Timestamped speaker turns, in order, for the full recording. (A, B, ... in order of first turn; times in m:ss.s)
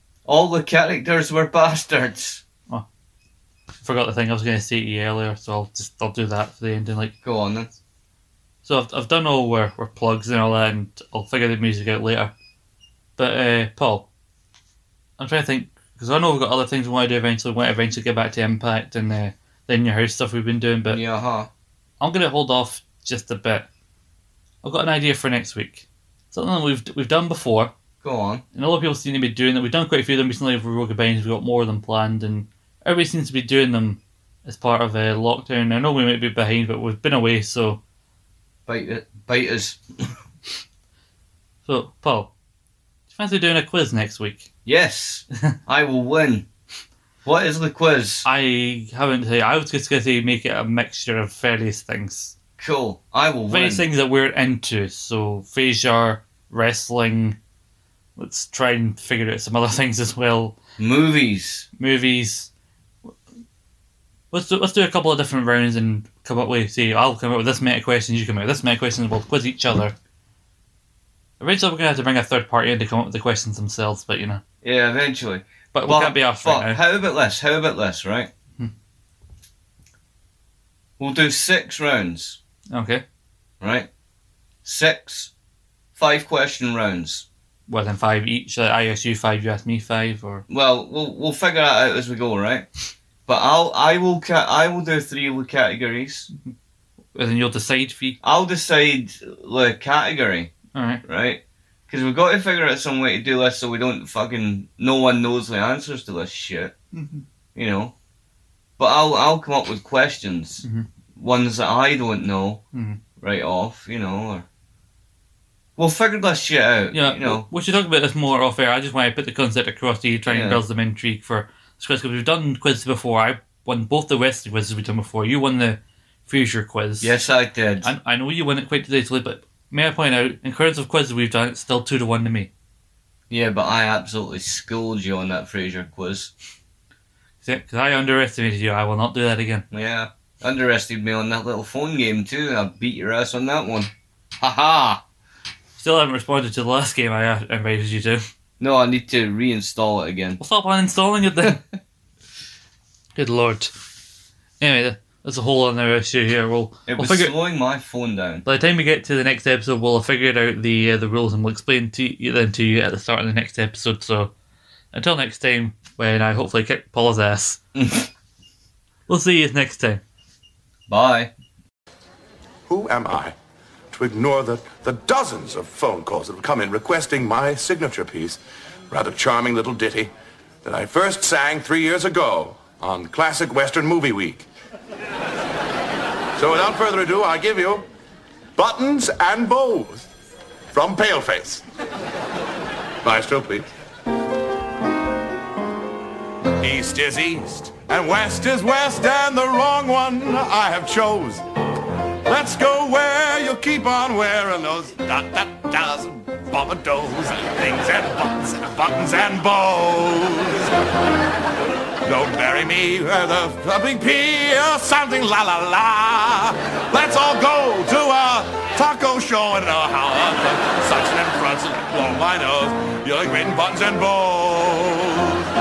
0:00.2-0:02.4 A
0:03.8-0:07.1 B
0:07.2-0:07.7 A
0:08.6-0:12.3 B
0:13.2-0:14.1 B
0:15.2-0:21.0 B
0:20.9-0:21.5 A
0:22.0-0:23.7 B
0:24.6-0:27.7 B
0:28.0-0:28.4 A
0:28.5-0:37.8 B
0:38.7-0:40.1 A
0:41.6-0:42.3 B
0:43.1-0:44.5 B
0:44.6-0:46.4 A
0:47.2-0:48.2 A
0:48.2-0:52.3 B
0:52.6-0:53.8 A
0:53.5-0:57.4 B
0:58.2-1:00.6 B
1:00.8-1:01.7 A
1:01.8-1:02.5 B
1:04.3-1:09.9 B
1:11.4-1:14.4 B
1:14.6-1:18.3 A
1:15.7-1:16.8 B
1:21.0-1:22.4 A
1:22.7-1:23.0 B
1:23.6-1:23.9 A
1:24.6-1:25.3 A
1:26.0-1:27.2 A
1:27.7-1:30.4 B
1:30.5-1:32.7 A
1:33.2-1:36.3 A
1:37.1-1:38.2 B
1:38.2-1:40.5 A
1:40.7-1:41.0 B
1:41.0-1:46.7 A
1:46.9-1:47.2 B
1:47.5-1:47.9 A
1:48.8-1:50.6 A
1:51.2-1:52.6 A
1:52.7-1:53.0 B
1:53.2-1:54.4 A
1:55.8-1:57.4 A
1:56.9-2:07.1 B
2:00.3-2:00.6 A
2:07.0-2:07.9 A
2:07.8-2:12.5 B
2:13.3-2:16.3 A
2:17.4-2:19.6 B
2:19.7-2:25.0 A
2:25.8-2:28.2 B
2:28.6-2:30.4 A
2:30.4-2:31.6 B
2:33.2-2:33.7 B
2:34.6-2:37.3 B
2:36.9-2:38.4 A
2:38.4-2:44.3 B
2:44.9-2:47.6 B
2:47.7-2:48.1 A
2:49.1-2:50.0 B
2:50.9-2:51.3 A
2:52.7-2:53.3 C
2:53.9-2:58.4 C
2:58.9-3:00.1 C
3:00.6-3:04.4 C
3:06.4-3:07.8 C
3:08.6-3:10.1 C
3:10.7-3:11.6 C
3:13.0-3:13.7 C
3:16.6-3:21.4 C
3:22.2-3:30.7 C
3:32.0-3:45.5 C